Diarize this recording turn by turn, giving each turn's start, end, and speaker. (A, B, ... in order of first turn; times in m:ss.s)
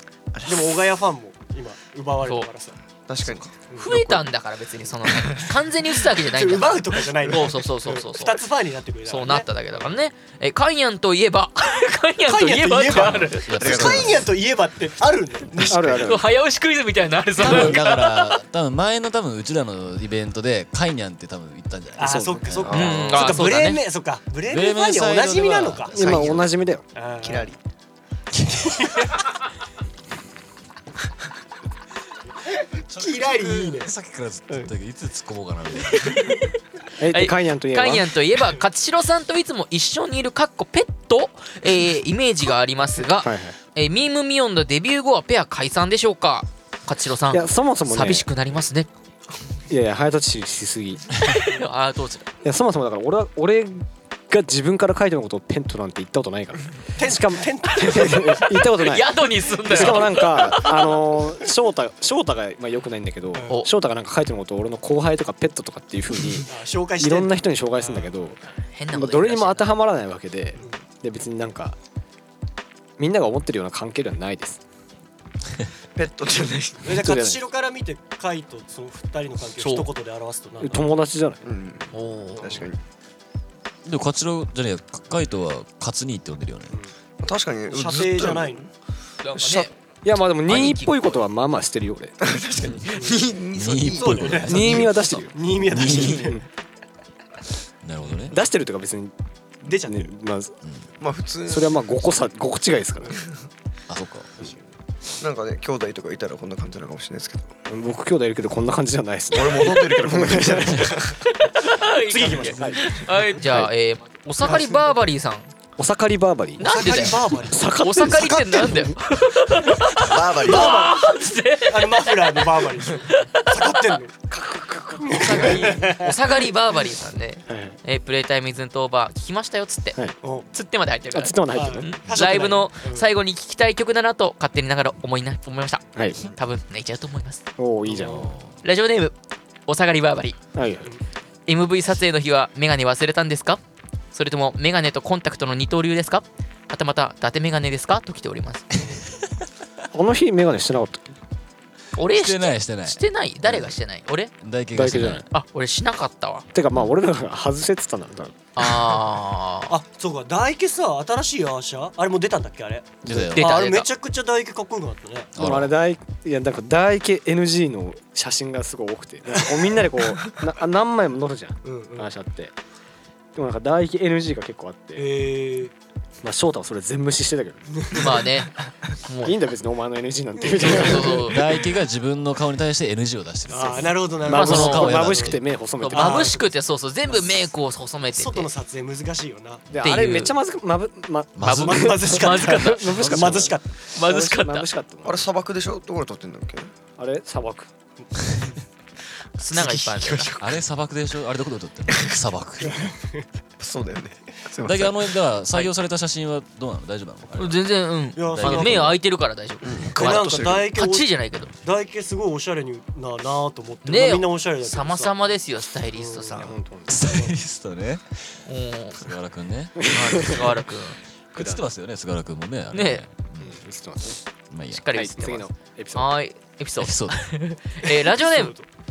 0:00.3-0:00.8 A
0:00.4-0:02.8 B
0:02.2-0:02.5 C
0:03.1-0:04.0 A
0:03.7-0:04.0 B
0:03.8-0:08.4 C
0:05.2-0:05.5 A
0:06.3-0:09.5 B
0:09.1-0:13.5 C
0:12.3-0:15.9 B
0:12.9-0:14.3 D
0:13.6-0:14.3 A
0:15.5-0:16.2 A
0:15.7-0:16.3 E
0:16.0-0:18.4 C
0:17.4-0:22.8 D
0:17.4-0:17.8 B
0:22.0-0:26.1 B
0:22.0-0:22.5 E
0:22.6-0:23.4 A
0:22.7-0:23.8 C
0:24.5-0:26.3 D
0:25.9-0:26.9 E
0:26.0-0:26.5 A
0:27.0-0:27.5 B
0:27.2-0:27.6 A
0:28.3-0:29.2 B
0:32.9-0:33.9 B
0:32.9-0:36.4 D
0:36.0-0:36.4 C
0:37.0-0:38.1 E
0:37.1-0:48.9 C
0:43.1-0:43.6 E
0:47.3-0:48.3 E
0:49.7-0:51.1 E
0:51.2-0:52.3 C
0:52.4-1:08.4 E
0:57.0-0:58.5 B
0:58.7-1:01.0 C
1:06.5-1:08.1 B
1:08.8-1:09.7 C
1:08.9-1:11.8 E
1:13.0-1:14.6 E
1:16.0-1:16.9 A
1:16.8-1:20.9 B
1:16.9-1:17.4 E
1:19.6-1:19.9 C
1:20.6-1:21.4 E
1:21.4-1:22.8 A
1:21.9-1:22.6 C
1:23.8-1:26.8 D
1:27.2-1:28.7 A
1:27.7-1:28.6 B
1:29.2-1:29.7 C
1:29.4-1:29.7 A
1:30.0-1:32.2 E
1:30.4-1:31.2 C
1:32.2-1:35.2 A
1:32.9-1:33.3 B
1:33.6-1:34.9 D
1:34.0-1:36.4 B
1:34.5-1:35.4 E
1:35.7-1:36.3 D
1:35.9-1:36.4 A
1:37.8-1:38.4 D
1:38.3-1:39.1 E
1:39.6-1:40.1 B
1:39.7-1:40.6 E
1:41.0-1:41.8 A
1:41.5-1:43.2 E
1:43.9-1:44.3 D
1:45.2-1:47.5 A
1:47.7-1:50.9 E
1:49.3-1:51.2 A
1:51.3-1:55.5 C
1:52.1-1:53.0 B
1:52.3-1:52.8 E
1:53.4-1:53.7 E
1:54.4-1:54.8 B
1:55.8-1:59.0 E
1:56.6-2:03.8 C
1:56.6-1:57.7 B
2:00.0-2:00.9 A
2:00.4-2:01.0 B
2:01.7-2:04.2 B
2:04.3-2:05.7 E
2:05.1-2:06.1 B
2:05.1-2:10.0 C
2:07.5-2:07.8 E
2:10.5-2:17.4 C
2:11.1-2:12.0 E
2:11.6-2:13.1 B
2:16.0-2:16.2 E
2:17.6-2:18.3 E
2:17.9-2:18.3 B
2:18.0-2:18.6 D
2:18.6-2:19.2 C
2:19.7-2:20.4 C
2:20.6-2:21.0 E
2:21.5-2:23.6 C
2:24.1-2:28.7 C
2:29.9-2:31.2 E
2:32.0-2:34.3 C
2:32.1-2:33.7 D
2:34.4-2:35.2 D
2:34.7-2:35.3 E
2:35.0-2:36.5 C
2:36.5-2:38.4 E
2:38.6-2:39.8 C
2:39.7-2:45.3 B
2:43.0-2:43.3 E
2:43.0-2:43.6 D
2:43.4-2:43.9 C
2:45.4-2:45.8 D
2:45.4-2:52.5 E
2:49.4-2:49.7 B
2:51.6-2:52.1 B
2:53.4-2:55.1 E
2:55.0-2:55.7 B
2:56.2-2:57.8 E
2:57.9-2:59.4 C
2:59.2-3:01.3 E
3:00.6-3:01.4 C
3:00.7-3:01.2 B
3:01.1-3:05.4 D
3:03.5-3:05.4 B
3:04.3-3:06.4 E
3:04.3-3:05.0 C
3:05.8-3:08.5 C
3:05.9-3:06.4 B
3:08.1-3:09.7 B
3:09.7-3:15.2 E
3:09.8-3:10.4 C
3:11.4-3:12.1 D
3:11.4-3:13.3 C
3:11.7-3:13.7 B
3:12.9-3:13.5 D
3:13.9-3:14.7 C
3:15.0-3:16.7 A
3:17.0-3:17.7 E
3:19.4-3:20.3 C
3:19.5-3:20.6 A
3:20.4-3:22.9 D
3:22.6-3:23.2 B
3:23.6-3:25.1 A
3:24.6-3:27.6 D
3:27.4-3:31.5 C
3:28.2-3:29.0 B
3:28.3-3:29.0 D
3:29.6-3:30.7 A
3:30.0-3:31.1 B
3:31.6-3:35.1 B
3:33.8-3:36.5 C
3:36.0-3:36.5 B
3:36.4-3:37.1 E
3:36.9-3:38.0 D
3:37.0-3:37.3 B
3:38.5-3:39.0 C
3:39.0-3:40.4 D
3:39.8-3:40.5 E
3:39.9-3:41.0 C
3:41.3-3:43.6 D
3:41.3-3:41.6 E
3:42.7-3:43.0 C
3:43.4-3:44.2 E
3:44.5-3:44.8 D
3:44.7-3:48.5 C
3:44.9-3:46.1 E
3:46.8-3:47.2 D
3:47.8-3:48.7 B